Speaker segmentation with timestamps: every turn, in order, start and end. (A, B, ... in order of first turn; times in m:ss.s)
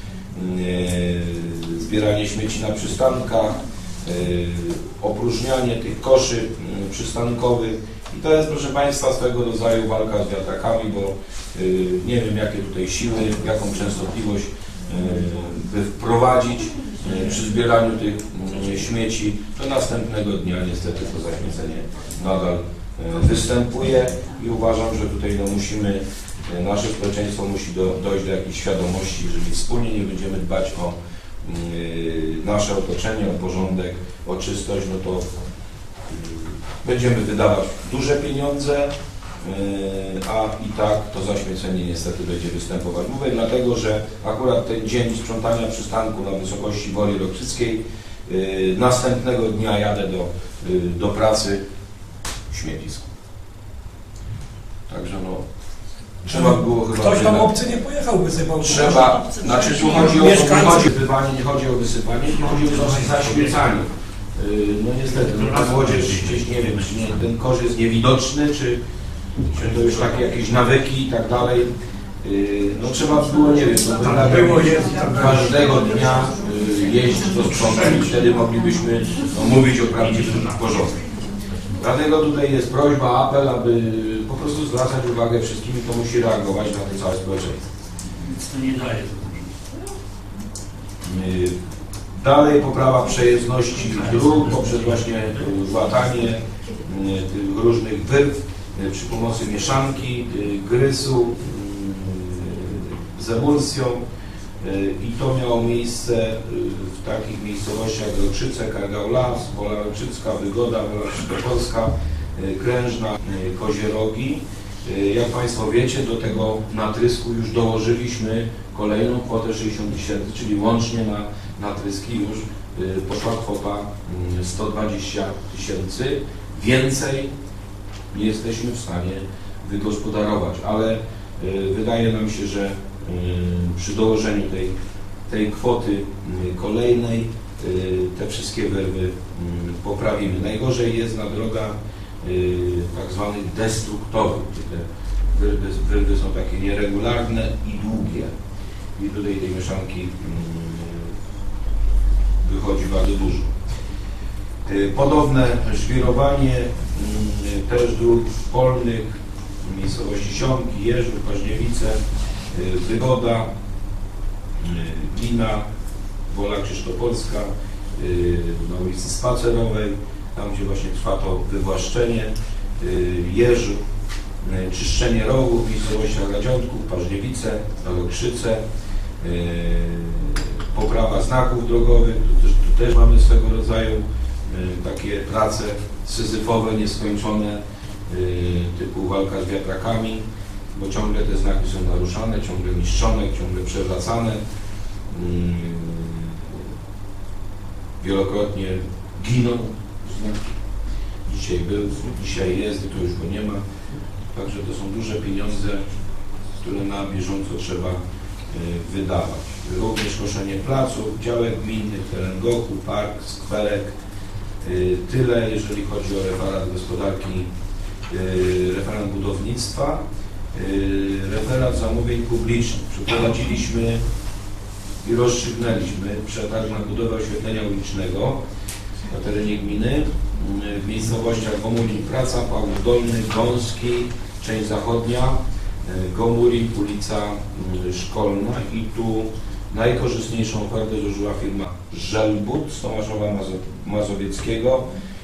0:00.3-0:35.3 A
0:36.1-0:51.6 A
0:52.5-0:53.1 A
0:54.9-0:55.4 A
0:56.2-0:57.6 A
0:56.3-0:59.3 B
0:58.6-1:08.8 A
1:00.0-1:00.8 B
1:05.4-1:06.4 C
1:09.4-1:20.9 A
1:14.2-1:15.6 B
1:21.8-1:27.6 A
1:28.3-1:29.5 C
1:31.0-1:31.5 A
1:32.2-1:44.0 A
1:44.6-2:07.3 A
2:08.1-2:14.7 A
2:15.3-2:28.3 A
2:29.0-2:31.1 A
2:32.4-2:33.5 A
2:34.6-2:42.0 A
2:42.5-2:43.5 A
2:44.6-2:45.6 A
2:46.3-2:53.8 A
2:54.4-2:58.6 A
2:59.2-3:14.4 A
3:15.1-3:16.6 A
3:18.0-3:20.6 A
3:21.2-3:23.6 A
3:24.3-3:25.8 A
3:26.6-3:33.9 A
3:34.6-3:37.5 A
3:38.1-3:40.0 A
3:40.5-3:44.0 A
3:45.0-3:48.4 A
3:49.1-4:04.9 A